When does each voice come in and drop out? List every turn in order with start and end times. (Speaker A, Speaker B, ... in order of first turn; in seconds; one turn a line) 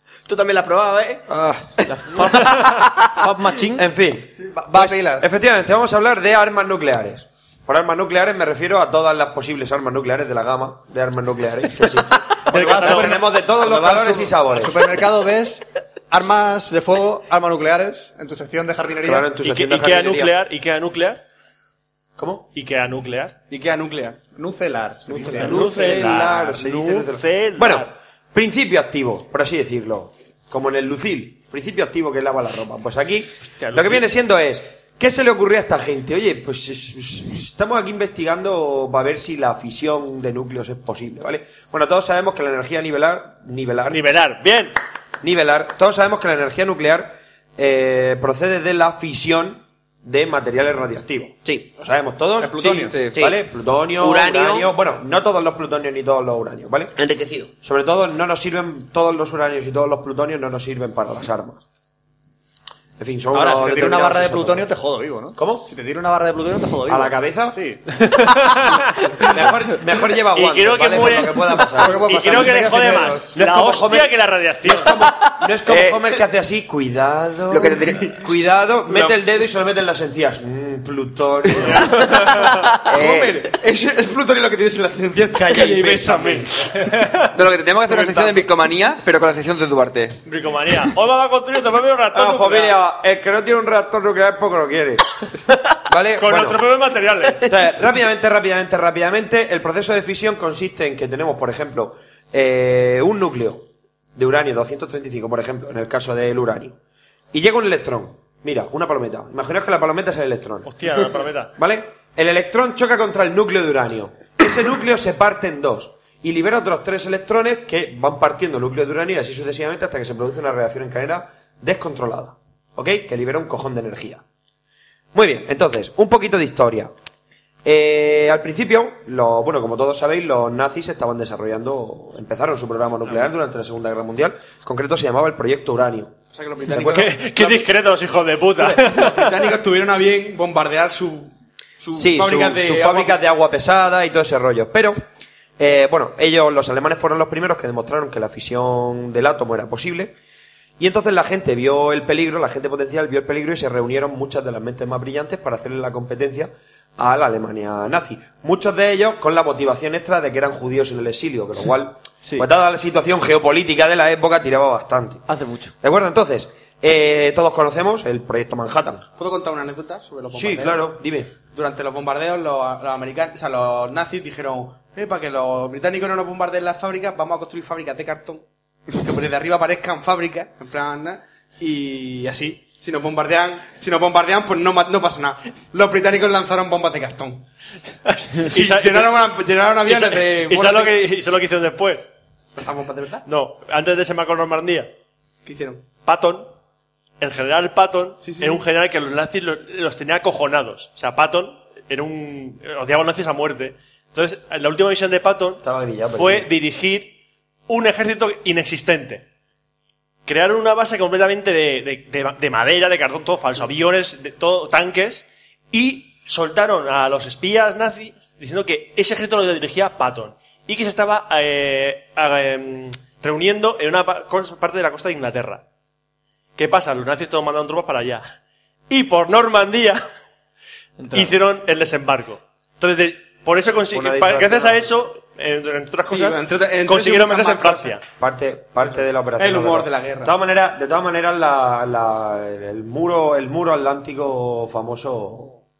Speaker A: 0.3-1.2
Speaker B: 1.3-1.8
Speaker C: 1.9-2.6
Speaker A: 2.2-3.2
Speaker C: 3.2-3.8
Speaker B: 3.7-12.2
Speaker D: 4.4-5.3
Speaker D: 12.5-19.3
Speaker E: 12.5-13.1
Speaker B: 12.7-14.9
Speaker B: 19.0-20.3
Speaker E: 19.4-21.2
Speaker B: 22.2-22.4
Speaker E: 22.5-23.3
Speaker F: 23.5-24.2
Speaker D: 24.3-25.8
Speaker B: 25.1-44.0
Speaker E: 25.2-27.9
Speaker E: 33.6-34.0
Speaker E: 43.9-44.7
Speaker B: 45.2-57.0
Speaker D: 52.4-52.9
Speaker G: 52.9-53.2
Speaker A: 54.0-54.7
Speaker A: 57.0-57.5
Speaker B: 57.6-61.6
Speaker B: 63.0-64.7
Speaker D: 63.3-67.8
Speaker B: 65.3-65.7
Speaker B: 66.9-67.6
Speaker E: 68.1-68.9
Speaker B: 69.2-72.5
Speaker E: 70.3-75.0
Speaker D: 71.7-73.3
Speaker B: 73.3-81.9
Speaker G: 75.7-75.9
Speaker A: 77.5-78.2
Speaker E: 81.5-82.6
Speaker F: 82.8-86.6
Speaker G: 82.9-83.3
Speaker B: 85.3-86.7
Speaker E: 86.8-87.3
Speaker G: 87.3-90.2
Speaker B: 87.9-88.3
Speaker E: 90.2-92.8
Speaker B: 92.1-95.1
Speaker B: 95.8-96.6
Speaker E: 96.2-97.5
Speaker B: 97.4-106.8
Speaker B: 107.3-110.7
Speaker E: 110.7-111.5
Speaker B: 111.6-124.2
Speaker B: 125.1-126.9
Speaker B: 127.6-136.2
Speaker F: 136.3-137.7
Speaker B: 136.7-137.1
Speaker E: 136.8-139.4
Speaker F: 138.6-143.2
Speaker B: 141.9-145.0
Speaker B: 145.6-150.1
Speaker B: 150.8-165.3
Speaker C: 165.3-165.7
Speaker B: 165.8-169.0
Speaker F: 169.2-170.9
Speaker B: 170.3-171.3
Speaker F: 171.5-178.4
Speaker F: 179.0-187.4
Speaker E: 188.1-189.2
Speaker F: 188.4-191.0
Speaker E: 189.8-192.1
Speaker F: 192.5-193.2
Speaker E: 193.3-194.9
Speaker F: 195.4-195.8
Speaker E: 196.1-196.5
Speaker E: 197.2-205.6
Speaker F: 198.2-198.6
Speaker B: 205.6-206.5
Speaker E: 206.1-207.1
Speaker E: 207.7-209.2
Speaker E: 210.3-225.6
Speaker E: 226.6-228.3
Speaker E: 228.9-230.0
Speaker C: 231.0-231.4
Speaker E: 231.1-238.0
Speaker B: 233.9-234.9
Speaker F: 236.1-238.0
Speaker B: 238.2-245.6
Speaker F: 239.4-240.3